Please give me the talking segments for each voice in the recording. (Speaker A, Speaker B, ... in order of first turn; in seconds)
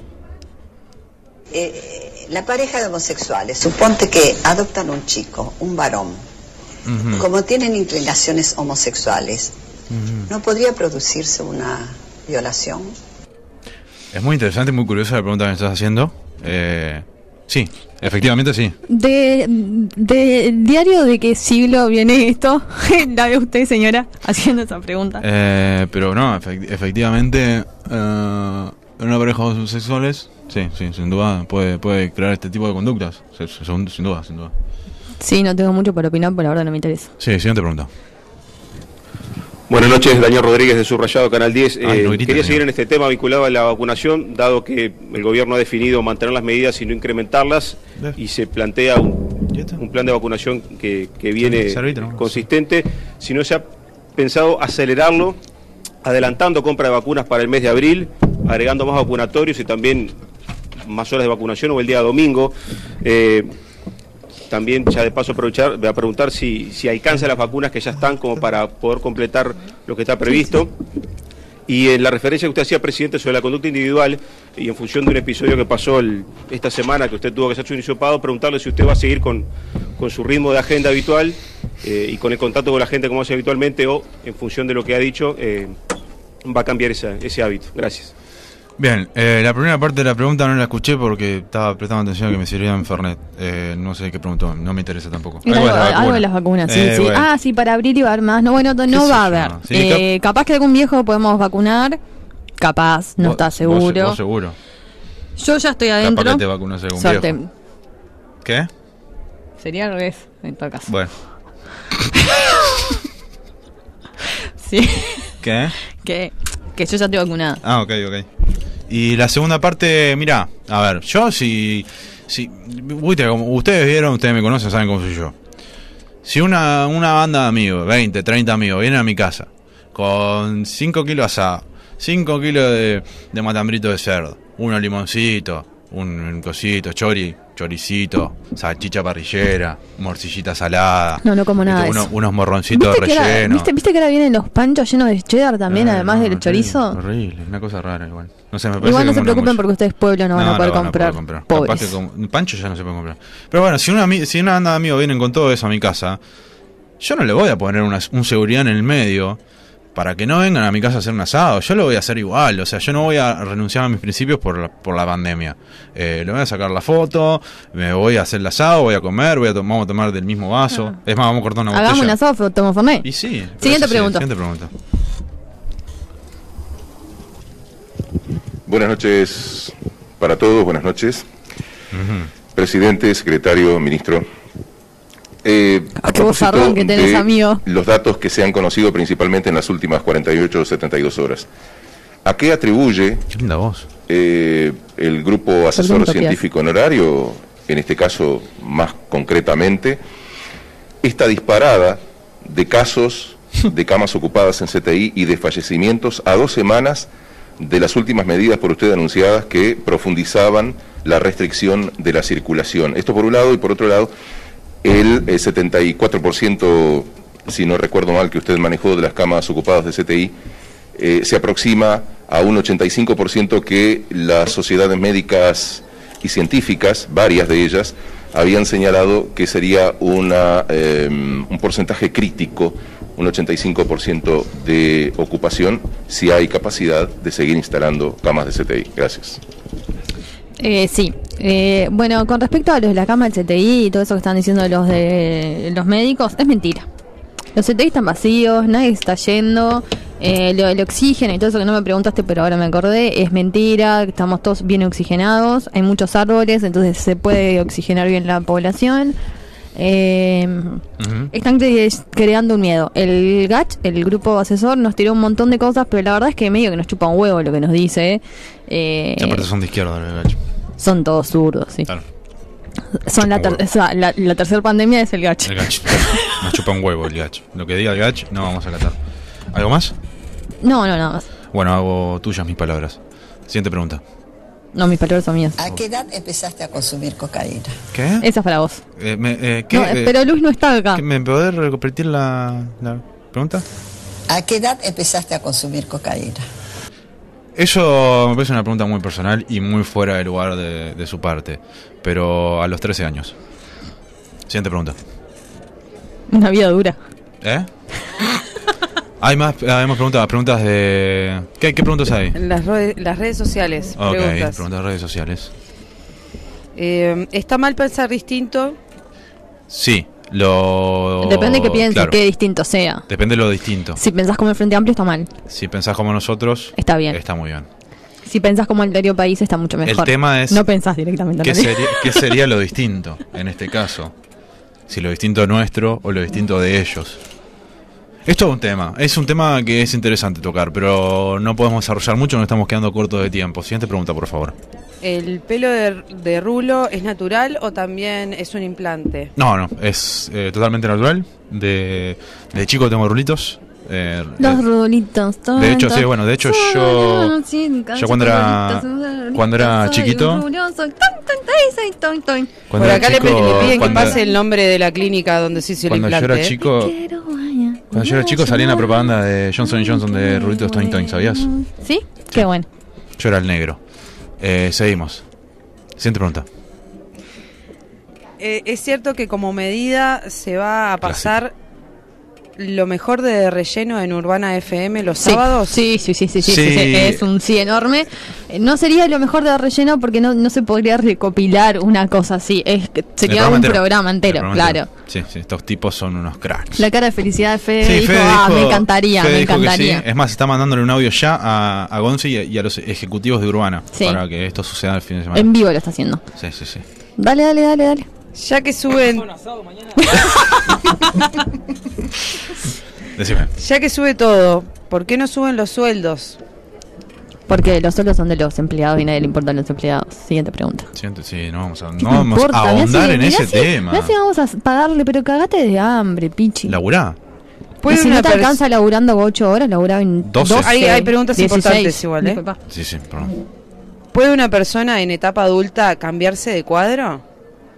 Speaker A: 1.5-6.2, 7.2-9.5, 10.3-12.9, 285.6-287.8, 294.3-296.4
Speaker B: 6.8-7.2, 9.9-10.3, 14.1-18.8, 25.2-34.5, 37.2-37.9, 41.8-42.6, 49.5-49.8, 51.4-52.5, 88.8-97.3, 98.9-100.0, 103.2-104.6, 106.0-107.4, 108.4-108.7, 110.9-111.1, 115.4-115.8, 117.6-118.3, 118.9-125.3, 126.2-143.7, 145.7-149.6, 150.3-156.2, 157.0-159.4, 159.9-172.2, 173.0-174.7, 181.9-182.3, 193.3-193.9, 261.0-261.3, 269.2-270.4, 273.2-273.6, 275.4-279.0, 279.5-279.9, 281.5-284.0, 287.9-288.3, 289.0-290.2, 290.9-293.6, 297.6-303.4, 304.5-305.0, 307.4-307.7, 309.2-312.4, 314.0-315.5, 319.7-322.2, 323.1-324.0, 325.5-327.7, 329.8-330.6, 331.4-334.1, 334.9-337.2, 338.3-344.6, 349.4-354.6, 355.6-357.4, 357.9-360.4, 362.7-364.2, 365.9-366.9, 367.9-371.5, 373.2-373.8, 374.4-375.2, 376.0-376.5, 381.0-381.3, 386.4-387.2, 393.2-396.9, 397.8-405.5, 406.4-406.9, 413.2-413.5, 420.9-424.1, 426.7-427.2, 430.2-430.7, 432.7-433.3
Speaker C: 18.9-25.2, 35.2-37.1, 95.4-102.0, 102.6-104.2, 105.4-107.5, 109.6-110.9, 112.3-112.9, 114.6-115.4, 115.9-117.6, 141.2-142.1, 142.7-147.0, 148.8-151.9, 171.7-173.1, 173.6-174.3, 186.0-187.6, 195.8-196.4, 240.6-246.9, 247.6-259.2, 259.8-269.5, 270.8-271.9, 272.9-276.4, 280.6-281.3, 284.8-285.6, 288.2-288.8, 289.7-291.0, 306.3-307.0, 321.2-323.1, 323.9-325.3, 326.8-327.2, 328.2-332.3, 354.4-364.4, 366.6-372.7, 385.2-394.9, 396.8-400.0, 403.9-404.2, 405.3-406.2, 407.2-408.1, 410.0-411.4, 417.5-420.9, 422.0-426.8, 427.9-432.6
Speaker D: 39.7-55.4, 56.0-60.2, 60.9-63.5, 64.5-70.7, 71.7-85.8, 86.4-88.1
Speaker E: 178.7-181.3, 182.6-184.3, 185.4-191.5, 192.2-193.3, 194.1-200.0, 201.0-214.1, 214.8-220.3, 220.9-239.4
Speaker F: 312.4-314.6, 316.8-318.8, 345.0-349.3, 362.8-366.5, 378.4-381.6, 382.6-385.8, 408.4-409.3, 413.6-416.4, 427.8-428.6, 430.5-432.4, 434.1-437.2